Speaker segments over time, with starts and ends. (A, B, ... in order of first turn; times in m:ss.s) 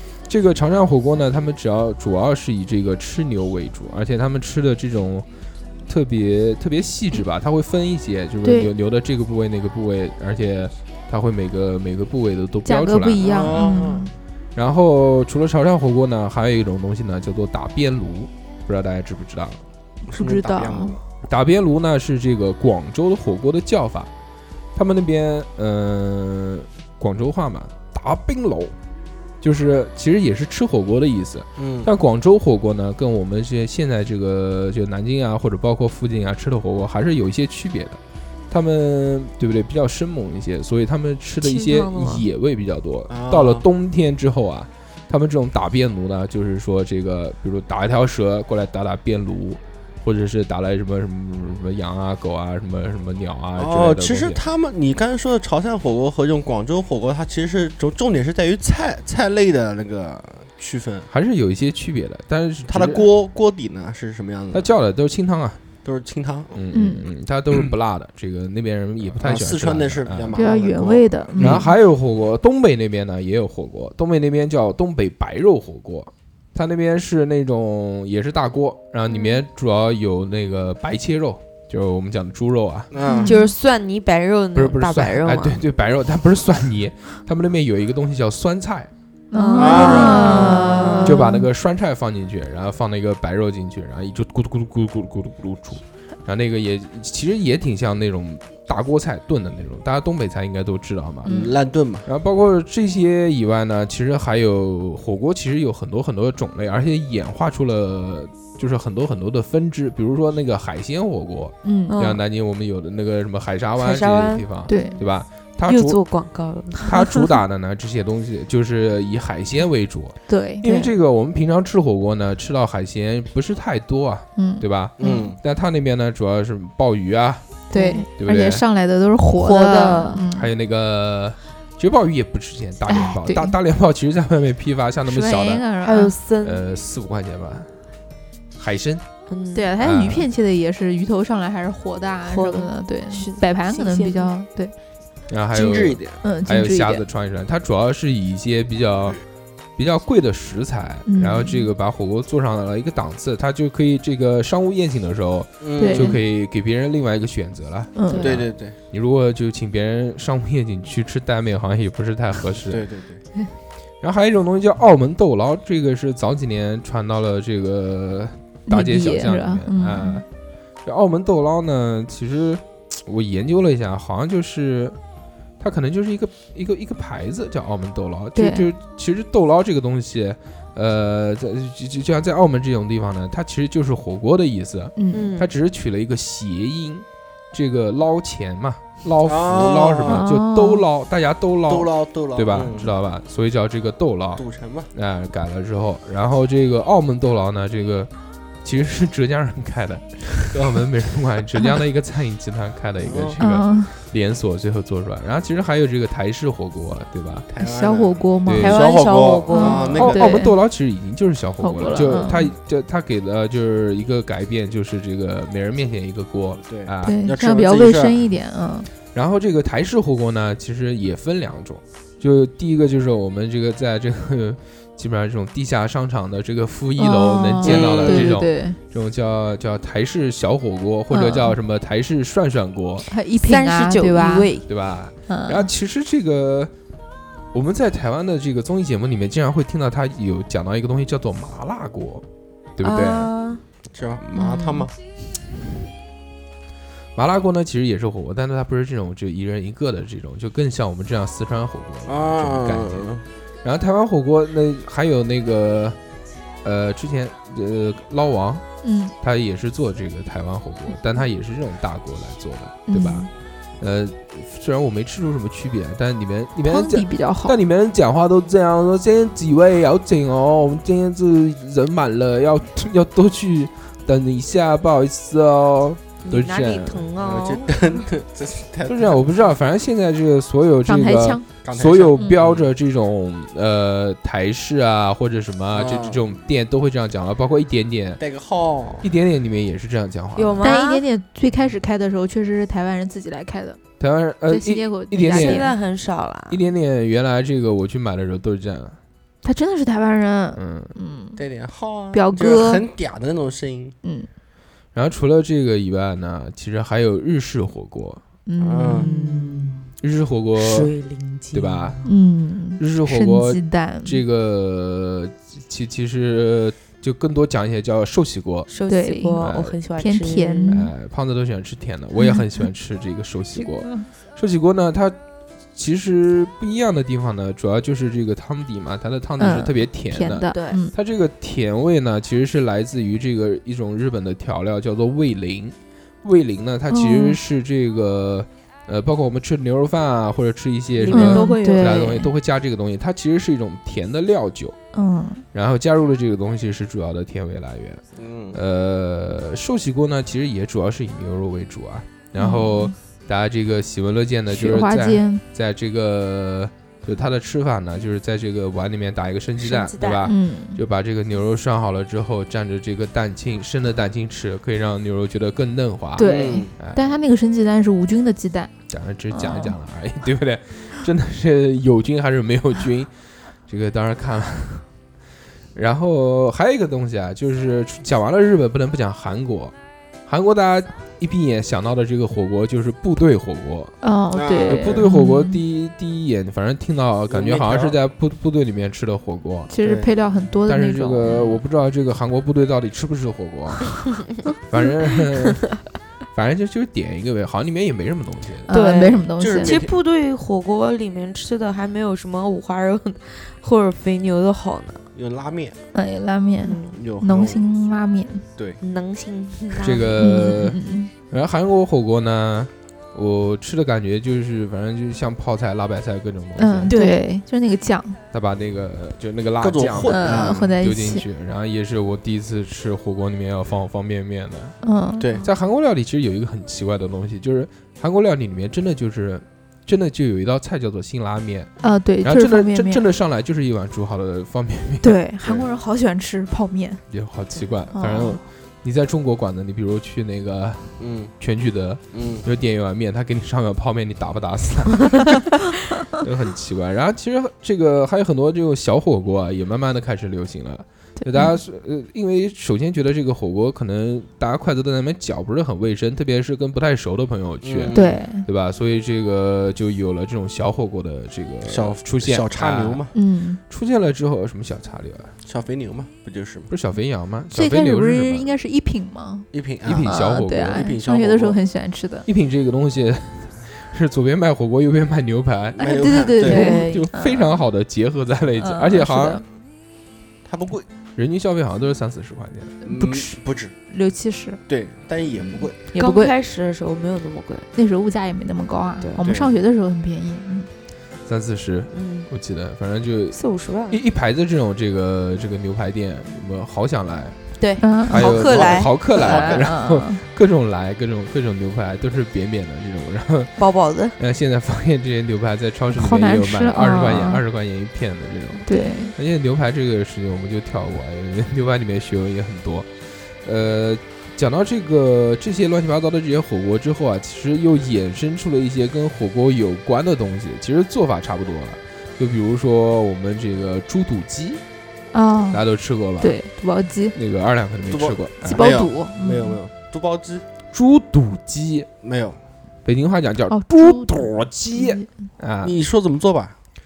0:00.3-0:05.2 A
0:05.9-0:13.6 A
0:08.4-0:08.7 B
0:12.6-0:14.1 B
0:13.2-0:14.1 C
0:14.5-0:19.6 A
0:20.1-0:21.0 C
0:20.1-0:21.0 B
0:21.2-0:24.1 A
0:24.7-0:28.7 A
0:29.4-0:38.0 A
0:31.6-0:31.9 C
0:38.5-0:54.4 A
0:41.4-0:42.2 D
0:43.1-0:43.6 C
0:53.6-1:01.1 C
1:01.1-1:03.0 A
1:02.7-1:04.7 C
1:04.5-1:05.6 A
1:05.8-1:06.6 C
1:06.5-1:10.3 A
1:06.7-1:07.0 B
1:09.1-1:11.6 C
1:10.3-1:11.7 B
1:11.4-1:22.9 A
1:22.9-1:23.3 C
1:23.0-1:23.5 B
1:23.3-1:25.6 D
1:24.5-1:28.9 A
1:29.3-1:31.4 B
1:29.3-1:31.1 D
1:29.5-1:31.0 C
1:29.7-1:30.2 A
1:31.0-1:41.5 A
1:41.2-1:41.5 B
1:41.2-1:42.1 C
1:42.0-1:56.0 A
1:51.6-1:52.0 B
1:51.9-1:52.2 D
1:53.8-1:55.0 D
1:54.7-1:55.0 B
1:55.6-1:56.8 D
1:56.8-2:08.6 A
2:00.3-2:00.7 B
2:04.4-2:04.6 B
2:05.0-2:05.3 D
2:05.0-2:05.4 C
2:07.7-2:10.5 B
2:07.7-2:08.1 D
2:09.4-2:10.2 D
2:10.3-2:15.6 A
2:12.9-2:13.5 B
2:15.1-2:16.1 B
2:15.8-2:16.6 D
2:16.4-2:17.8 A
2:18.6-2:19.0 A
2:19.3-2:19.7 D
2:19.5-2:24.7 B
2:19.8-2:20.3 A
2:22.3-2:24.3 D
2:25.3-2:29.2 A
2:25.5-2:26.2 C
2:26.2-2:27.0 B
2:29.8-2:42.8 A
2:31.1-2:31.7 B
2:35.6-2:36.2 C
2:35.8-2:36.2 B
2:38.0-2:38.3 B
2:38.2-2:38.8 C
2:42.7-2:43.2 C
2:44.0-2:50.2 A
2:48.7-2:50.2 B
2:50.8-2:55.0 A
2:55.6-3:18.1 A
2:58.4-2:58.7 B
3:05.0-3:05.3 B
3:05.1-3:05.5 D
3:09.2-3:10.2 C
3:10.0-3:10.8 B
3:11.7-3:12.9 C
3:14.3-3:14.9 C
3:18.6-3:27.5 A
3:23.0-3:23.4 C
3:23.4-3:23.9 B
3:27.5-3:30.4 C
3:27.6-3:30.5 B
3:28.4-3:28.8 A
3:28.6-3:30.1 D
3:29.6-3:37.2 A
3:31.6-3:32.5 B
3:36.6-3:38.2 C
3:37.0-3:38.9 B
3:39.1-3:53.1 A
3:47.0-3:48.8 B
3:47.6-3:48.3 C
3:51.1-3:51.6 B
3:53.1-3:54.5 B
3:53.4-3:54.6 D
3:54.7-3:56.7 A
3:55.3-3:55.7 B
3:57.5-4:02.2 A
4:02.8-4:03.3 A
4:02.8-4:03.6 D
4:03.9-4:04.9 C
4:04.4-4:04.9 B
4:07.1-4:13.1 A
4:12.0-4:13.2 C
4:13.6-4:16.0 A
4:16.6-4:18.6 A
4:18.8-4:19.1 B
4:19.2-4:37.0 A
4:22.9-4:23.3 B
4:26.6-4:27.6 B
4:36.2-4:37.7 D
4:37.2-4:39.2 C
4:38.8-4:48.2 A
4:40.8-4:41.4 B
4:41.6-4:42.7 C
4:45.7-4:46.2 C
4:48.2-4:49.1 C
4:49.0-4:50.7 A
4:50.4-4:51.0 D
4:50.6-4:53.8 B
4:54.0-4:55.7 A
4:54.5-4:55.7 B
4:55.3-4:56.6 D
4:56.5-4:59.0 A
4:59.4-5:01.4 B
5:00.5-5:00.9 A
5:01.4-5:03.9 C
5:02.1-5:02.8 B
5:04.0-5:04.3 B
5:04.9-5:08.2 A
5:08.4-5:09.7 B
5:08.6-5:09.1 C
5:08.8-5:09.9 D
5:10.0-5:10.9 A
5:10.6-5:12.1 D
5:11.5-5:12.0 A
5:12.0-5:14.2 B
5:12.8-5:18.7 A
5:18.7-5:20.8 D
5:18.9-5:19.4 B
5:19.4-5:19.7 A
5:20.0-5:20.9 B
5:20.7-5:25.2 A
5:23.6-5:24.0 B
5:25.7-5:44.8 A
5:29.4-5:30.9 B
5:30.5-5:30.8 D
5:36.9-5:37.4 B
5:41.0-5:42.3 D
5:41.1-5:42.2 B
5:44.9-5:45.4 B
5:45.5-6:07.2 A
5:48.2-5:48.6 C
5:52.4-5:52.9 B
5:54.5-5:55.4 B
5:59.6-6:00.3 D
6:00.2-6:00.8 B
6:06.2-6:08.7 B
6:06.2-6:06.7 C
6:08.9-6:14.9 A
6:09.3-6:09.7 B
6:15.7-6:19.7 A
6:20.3-6:24.0 A
6:24.0-6:25.6 B
6:24.3-6:25.0 C
6:24.6-6:29.7 A
6:27.3-6:28.0 C
6:29.7-6:31.2 B
6:29.8-6:30.1 C
6:30.7-6:34.2 A
6:34.7-6:35.8 A
6:36.3-6:38.7 A
6:38.7-6:39.7 B
6:38.7-6:45.0 D
6:39.4-6:39.9 C
6:45.1-6:45.8 C
6:45.9-6:48.4 B
6:46.6-6:47.0 D
6:47.0-6:47.6 C
6:48.8-6:50.2 D
6:49.8-6:50.8 A
6:50.2-6:51.1 B
6:51.3-6:57.0 A
6:56.6-6:58.2 B
6:56.9-6:57.2 D
6:58.3-7:04.8 A
6:59.6-7:00.7 C
7:00.1-7:01.2 B
7:04.8-7:05.3 B
7:05.2-7:05.4 C
7:05.4-7:15.2 A
7:11.8-7:13.0 B
7:15.0-7:17.0 B
7:17.1-7:25.6 A
7:17.9-7:18.4 B
7:21.0-7:21.3 C
7:22.1-7:22.4 C
7:26.1-7:43.1 A
7:31.2-7:31.5 B
7:37.6-7:38.2 C
7:37.9-7:38.4 B
7:41.6-7:43.1 C
7:43.1-7:43.6 B
7:43.7-7:45.3 A
7:45.4-7:46.7 C
7:46.7-7:48.6 A
7:47.5-7:49.5 B
7:49.5-7:51.6 C
7:49.8-7:50.8 A
7:50.0-7:52.2 B
7:52.2-7:59.4 A
7:55.7-7:56.7 C
7:55.8-7:57.6 B
7:56.4-7:57.1 D
7:58.6-7:59.4 B
8:00.4-8:00.8 C
8:01.2-8:02.8 A
8:02.8-8:03.8 C
8:02.8-8:04.6 B
8:04.7-8:05.8 C
8:05.5-8:07.7 D
8:05.9-8:06.3 B
8:07.7-8:10.7 B
8:09.2-8:09.6 C
8:11.2-8:17.5 A
8:11.9-8:12.3 D
8:13.3-8:14.0 D
8:17.6-8:18.9 D
8:17.8-8:18.4 B
8:18.0-8:44.6 A
8:18.3-8:19.7 C
8:19.1-8:20.2 B
8:23.6-8:24.2 D
8:25.9-8:27.4 B
8:26.8-8:27.2 D
8:28.7-8:29.1 B
8:28.7-8:29.1 D
8:45.1-8:45.6 B
8:45.5-8:46.4 A
8:46.2-8:47.2 B
8:47.1-8:48.8 A
8:47.9-8:50.4 C
8:48.4-8:49.6 B
8:50.7-8:51.9 A
8:52.0-8:52.4 C
8:52.8-8:55.7 A
8:53.5-8:55.1 B
8:55.6-8:56.5 C